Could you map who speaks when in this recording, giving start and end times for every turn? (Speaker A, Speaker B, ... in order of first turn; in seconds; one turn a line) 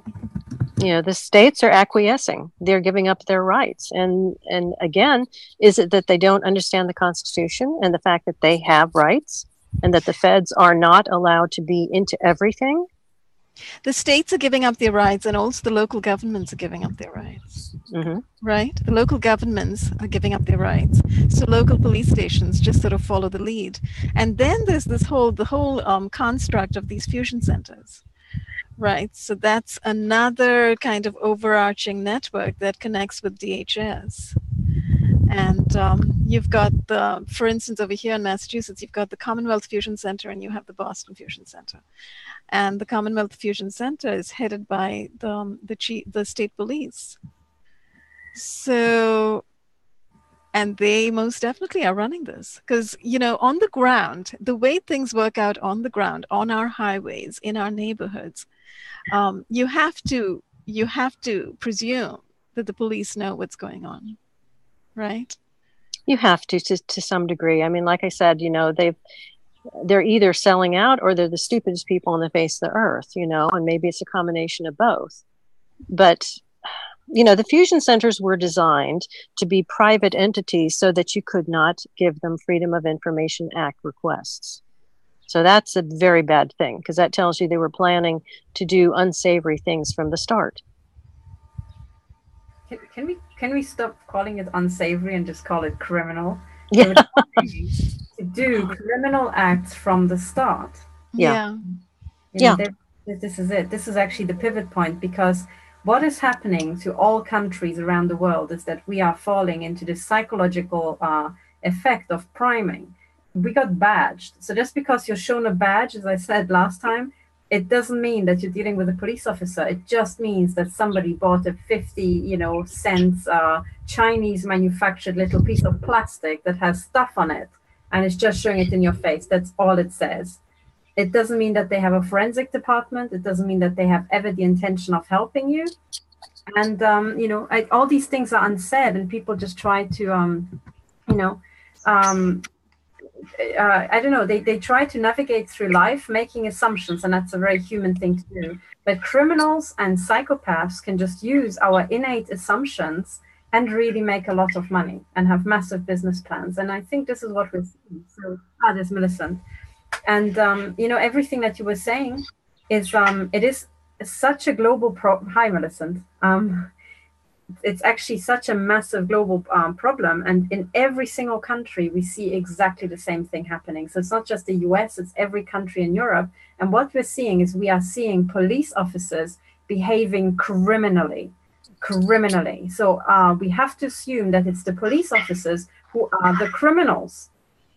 Speaker A: 0.8-12.9
Speaker B: 13.8-17.7
Speaker A: 17.9-18.2
Speaker B: 18.4-28.0
Speaker B: 28.8-34.4
Speaker B: 35.3-41.8
Speaker B: 42.5-47.2
Speaker B: 48.3-49.4
Speaker B: 50.5-58.5
Speaker B: 59.1-64.2
Speaker B: 65.0-65.4
Speaker A: 66.1-69.0
Speaker A: 69.8-75.2
Speaker A: 75.9-76.4
Speaker A: 77.1-84.6
Speaker A: 85.3-90.6
Speaker C: 92.7-100.8
Speaker A: 96.7-97.2
Speaker B: 101.2-101.6
Speaker C: 102.3-130.4
Speaker C: 131.0-135.7
Speaker C: 136.5-142.5
Speaker C: 143.4-159.4
Speaker C: 160.1-166.7
Speaker C: 167.6-187.3